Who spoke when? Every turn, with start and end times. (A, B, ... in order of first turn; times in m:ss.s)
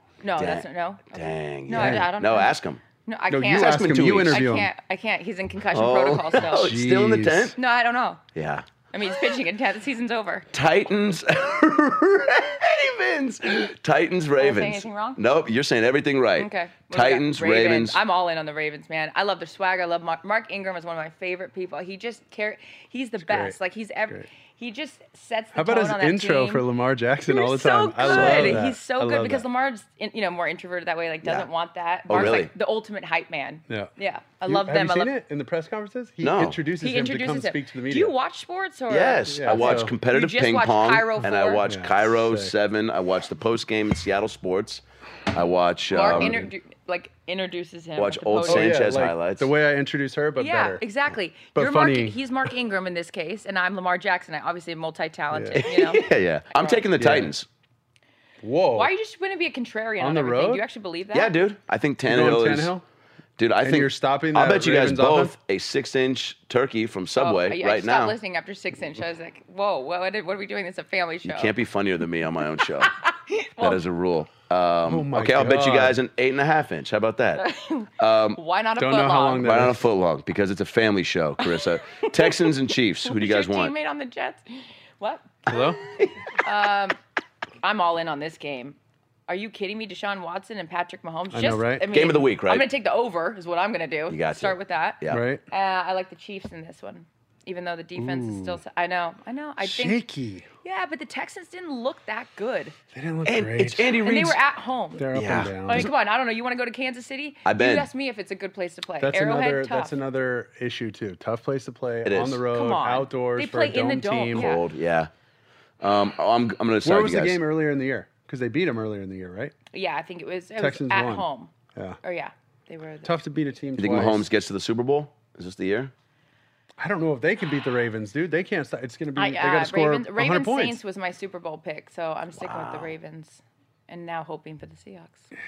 0:00.2-0:06.7 A
0:00.4-0:02.8 B
0:01.7-0:02.1 C
0:03.3-0:04.7 C
0:03.5-0:04.4 B
0:05.7-0:07.6 B
0:06.4-0:07.6 C
0:07.6-0:08.2 A
0:08.4-0:08.6 B
0:08.9-0:10.5 A
0:10.5-0:18.0 B
0:14.4-0:15.2 A
0:16.4-0:26.7 A
0:23.2-0:23.6 C
0:25.5-0:29.4 C
0:27.2-0:35.1 A
0:28.0-0:28.6 B
0:32.1-0:32.5 B
0:34.5-0:38.1 C
0:36.2-0:36.6 B
0:36.8-0:41.6 A
0:38.9-0:46.4 B
0:39.3-0:39.9 C
0:41.6-0:42.5 C
0:45.9-0:48.8 A
0:46.1-0:46.5 C
0:48.0-0:49.5 B
0:48.4-0:50.8 C
0:50.4-0:56.8 A
0:51.6-0:52.2 C
0:55.3-0:55.6 C
0:55.6-0:57.5 B
0:57.0-0:57.3 C
0:58.4-0:58.9 C
0:58.7-1:01.3 A
1:00.0-1:00.6 C
1:01.1-1:02.7 B
1:02.1-1:02.8 C
1:03.4-1:08.2 B
1:03.6-1:05.4 C
1:07.2-1:11.5 A
1:11.2-1:12.9 B
1:12.8-1:13.8 A
1:13.6-1:18.4 B
1:14.9-1:16.0 C
1:17.4-1:19.5 A
1:18.8-1:19.9 C
1:19.4-1:23.7 B
1:21.5-1:22.5 A
1:23.0-1:27.0 A
1:25.5-1:25.8 C
1:27.6-1:28.8 A
1:29.3-1:40.0 A
1:31.3-1:31.9 C
1:31.9-1:32.7 B
1:34.1-1:35.2 B
1:35.1-1:35.4 C
1:38.0-1:38.6 C
1:39.6-1:40.5 C
1:40.6-1:42.8 A
1:42.9-1:43.9 C
1:43.2-1:44.4 B
1:44.0-1:50.0 A
1:45.0-1:45.9 C
1:45.1-1:45.9 B
1:47.4-1:47.9 B
1:49.0-1:54.5 C
1:52.0-1:52.4 B
1:52.5-1:54.6 A
1:54.3-1:55.1 B
1:55.8-1:57.4 B
1:56.8-1:59.5 C
1:59.7-2:03.1 A
2:00.6-2:02.0 C
2:03.0-2:04.3 C
2:03.8-2:05.9 B
2:06.8-2:10.8 C
2:09.2-2:15.3 A
2:12.4-2:12.9 B